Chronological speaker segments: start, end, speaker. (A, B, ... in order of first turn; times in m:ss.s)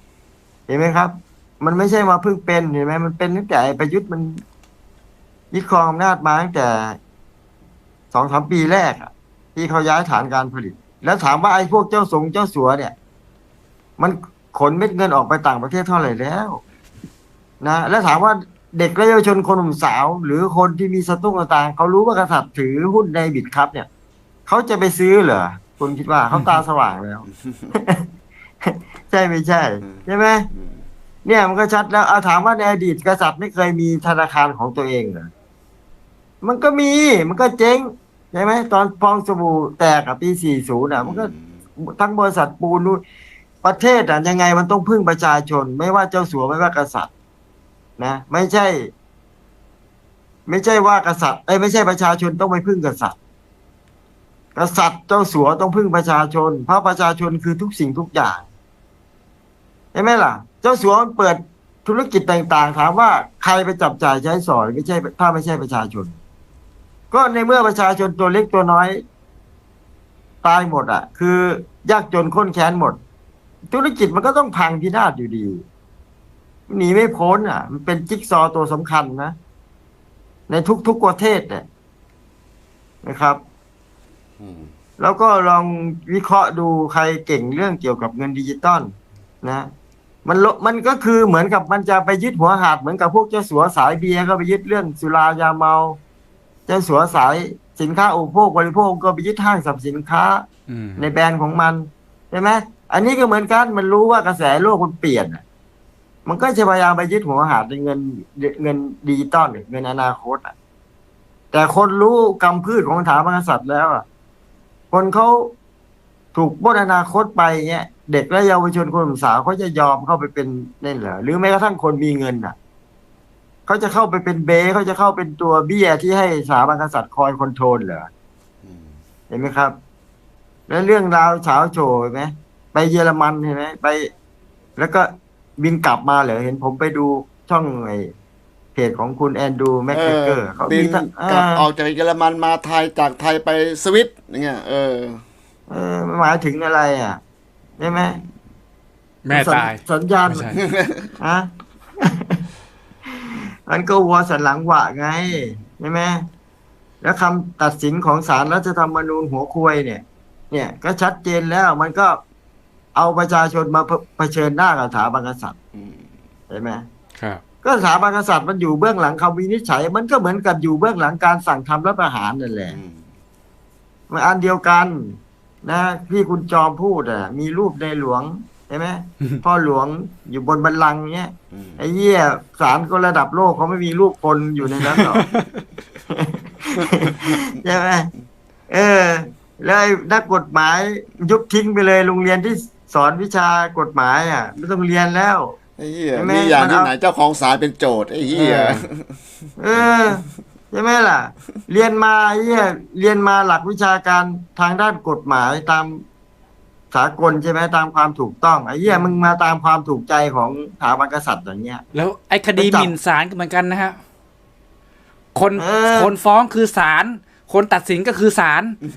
0:00.7-0:04.4 A
0:05.5-0:07.0 A
0:08.1-0:12.9 A
0:14.0-0:16.6 A
0:17.6-0:23.9 A
0:24.4-0:28.1 A
0:26.3-0:26.6 B
0:28.6-0:30.5 A
0:29.8-0:30.8 C
0:31.2-0:35.3 A
0:36.4-0:43.0 A
0:41.0-0:41.6 C
0:43.6-0:47.1 A
0:48.0-0:48.9 A
0:50.4-0:53.2 A
0:54.5-0:58.5 A
0:59.9-1:06.2 A
1:07.1-1:09.0 A
1:10.4-1:13.0 A
1:13.7-1:15.6 A
1:16.7-1:19.4 A
1:20.5-1:21.6 A
1:23.0-1:23.4 A
1:24.4-1:24.7 C
1:25.0-1:29.7 A
1:30.2-1:36.0 A
1:36.7-1:40.4 A
1:40.7-1:41.1 B
1:41.0-1:45.4 A
1:46.2-1:50.5 A
1:51.5-1:54.0 A
1:54.9-1:55.5 A
1:56.3-2:02.6 A
2:03.7-2:08.1 A
2:08.6-2:08.9 C
2:09.3-2:09.8 A
2:10.7-2:14.1 A
2:14.8-2:18.1 A
2:18.7-2:21.6 A
2:19.9-2:25.2 C
2:25.7-2:27.2 A
2:27.8-2:28.2 A
2:29.2-2:30.6 B
2:29.3-2:30.6 A
2:30.5-2:31.1 C
2:31.2-2:31.5 A
2:32.0-2:32.4 A
2:33.2-2:36.3 A
2:37.0-2:42.2 A
2:42.9-2:45.6 A
2:45.7-2:46.0 C
2:46.5-2:46.8 A
2:47.6-2:52.8 A
2:52.7-2:53.0 C
2:54.1-3:05.2 A
3:01.5-3:01.8 C
3:04.8-3:05.6 B
3:06.1-3:08.1 A
3:08.7-3:15.6 A
3:15.8-3:19.1 C
3:16.1-3:16.9 A
3:18.3-3:18.8 A
3:19.6-3:26.0 A
3:26.9-3:31.8 A
3:31.9-3:34.0 B
3:32.6-3:32.9 A
3:35.3-3:38.8 B
3:35.6-3:36.1 A